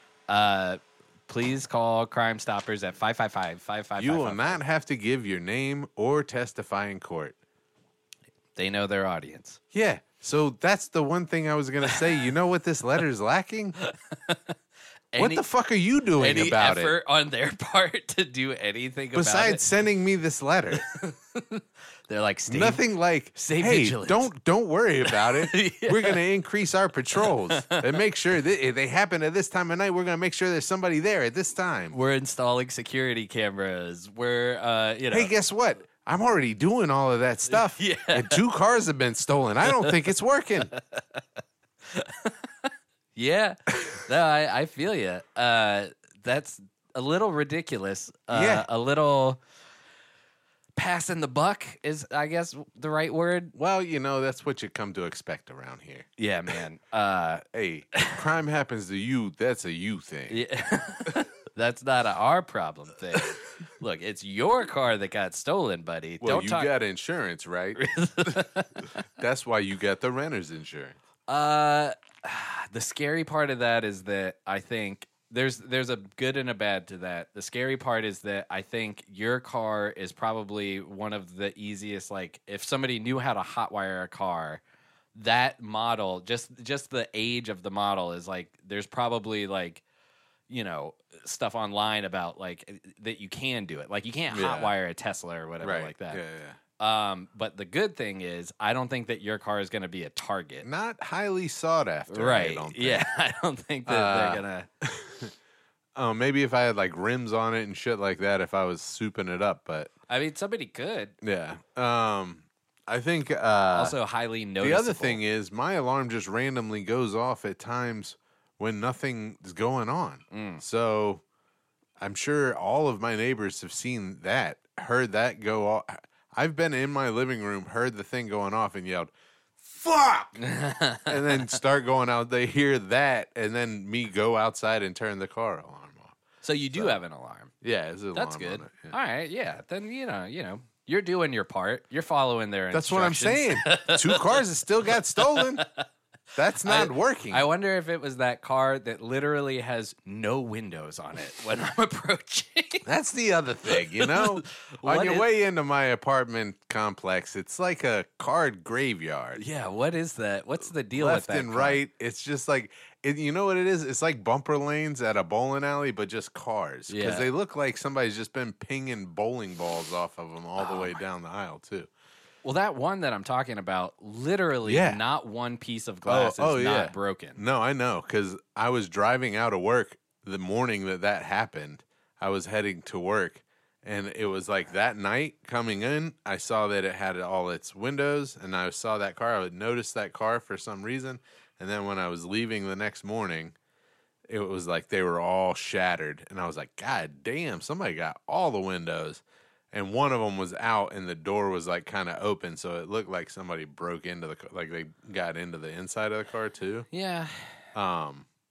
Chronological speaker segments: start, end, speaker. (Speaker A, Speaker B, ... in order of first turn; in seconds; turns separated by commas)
Speaker A: 0.3-4.6, Speaker B: 4.0-7.4, Speaker A: 8.6-9.6, Speaker B: 9.7-13.8, Speaker A: 13.8-14.6, Speaker A: 15.1-15.4, Speaker B: 15.2-17.0, Speaker A: 16.2-19.6, Speaker B: 19.1-20.9, Speaker A: 20.8-22.8, Speaker B: 22.5-32.0, Speaker A: 23.4-24.3, Speaker A: 25.1-26.2, Speaker A: 27.4-27.9, Speaker A: 31.9-35.4, Speaker B: 35.1-40.7, Speaker A: 37.5-38.4, Speaker A: 39.7-39.9, Speaker A: 40.7-41.2, Speaker A: 41.9-49.4, Speaker B: 48.3-48.7, Speaker A: 50.8-53.5, Speaker B: 53.5-56.1, Speaker A: 56.2-58.2, Speaker B: 57.5-60.4, Speaker A: 60.3-66.7, Speaker B: 66.2-68.5, Speaker A: 67.8-68.9, Speaker B: 69.2-71.0, Speaker A: 71.3-84.6, Speaker A: 85.2-89.8, Speaker A: 90.5-96.2, Speaker B: 94.3-94.7, Speaker B: 95.6-96.6, Speaker A: 96.8-100.7, Speaker B: 100.6-103.1, Speaker A: 102.1-104.7, Speaker B: 103.9-105.3, Speaker B: 106.0-109.9, Speaker A: 110.1-111.2, Speaker B: 111.2-114.0, Speaker A: 113.7-115.2, Speaker B: 114.6-121.2, Speaker A: 120.3-120.6, Speaker B: 122.0-130.4, Speaker A: 130.4-131.5, Speaker B: 131.1-136.2, Speaker A: 136.4-137.5, Speaker B: 136.7-137.0, Speaker B: 137.6-138.9, Speaker A: 138.1-144.4, Speaker B: 142.7-145.7, Speaker A: 145.2-145.8, Speaker B: 146.4-147.5, Speaker A: 146.6-152.9, Speaker B: 152.8-159.4, Speaker A: 153.7-155.3, Speaker A: 159.3-161.8, Speaker B: 160.9-171.9, Speaker A: 166.9-167.3, Speaker A: 170.6-171.0, Speaker A: 172.4-177.4, Speaker B: 174.7-175.0, Speaker B: 176.1-193.6, Speaker B: 194.3-206.9, Speaker A: 206.9-207.6, Speaker B: 207.7-208.3